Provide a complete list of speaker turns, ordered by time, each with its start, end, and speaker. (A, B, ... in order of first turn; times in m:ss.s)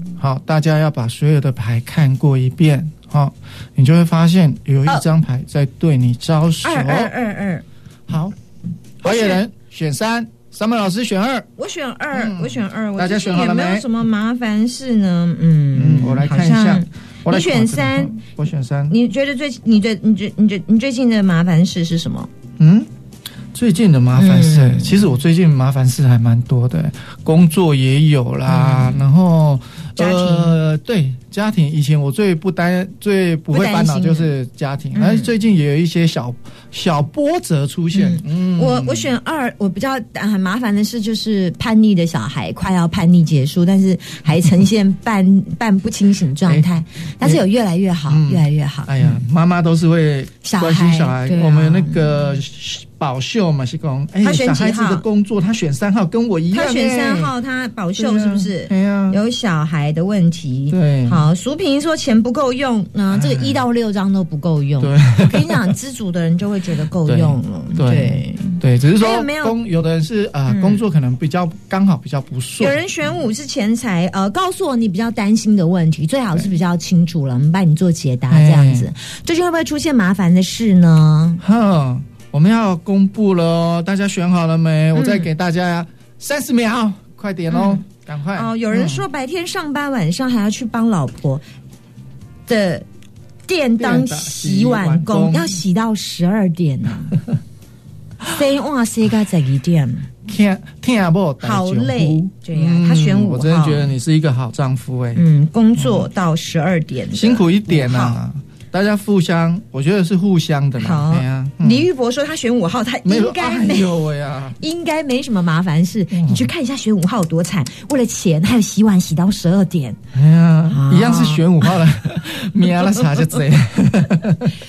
0:00.2-0:07.1 A
0:06.6-0:07.6 B
0:08.1-0:08.4 A
0:09.0-0:11.5 A
0:09.0-0:09.4 B
0:11.6-0:18.2 B
0:12.1-0:13.9 A
0:15.7-0:18.9 A
0:18.9-0:22.3 B
0:22.6-0:22.9 A
0:23.5-0:39.1 A
0:24.2-0:25.0 B
0:28.5-0:29.0 B
0:30.0-0:30.5 B
0:33.5-0:34.3 B
0:34.9-0:35.3 B
0:37.9-0:49.2 B
0:48.1-0:57.3 A
0:50.4-0:52.2 B
0:54.2-0:55.0 B
0:56.5-1:09.6 B
0:58.0-0:59.2 A
1:00.7-1:01.2 A
1:03.1-1:03.6 A
1:04.8-1:05.7 A
1:07.0-1:12.8 A
1:10.5-1:10.8 B
1:12.6-1:21.4 B
1:18.3-1:18.9 A
1:21.4-1:29.0 A
1:24.9-1:25.3 B
1:27.5-1:27.8 B
1:28.3-1:31.4 B
1:32.5-1:32.8 B
1:33.5-1:37.2 B
1:33.8-1:35.6 A
1:38.2-1:40.1 B
1:40.2-1:45.2 A
1:41.4-1:43.9 B
1:45.1-1:48.2 B
1:45.8-1:46.1 A
1:47.1-1:51.8 A
1:50.8-1:54.0 B
1:53.0-1:54.6 A
1:54.6-2:00.0 B
1:56.1-1:56.5 A
2:00.1-2:04.5 A
2:00.7-2:01.8 B
2:02.7-2:03.1 B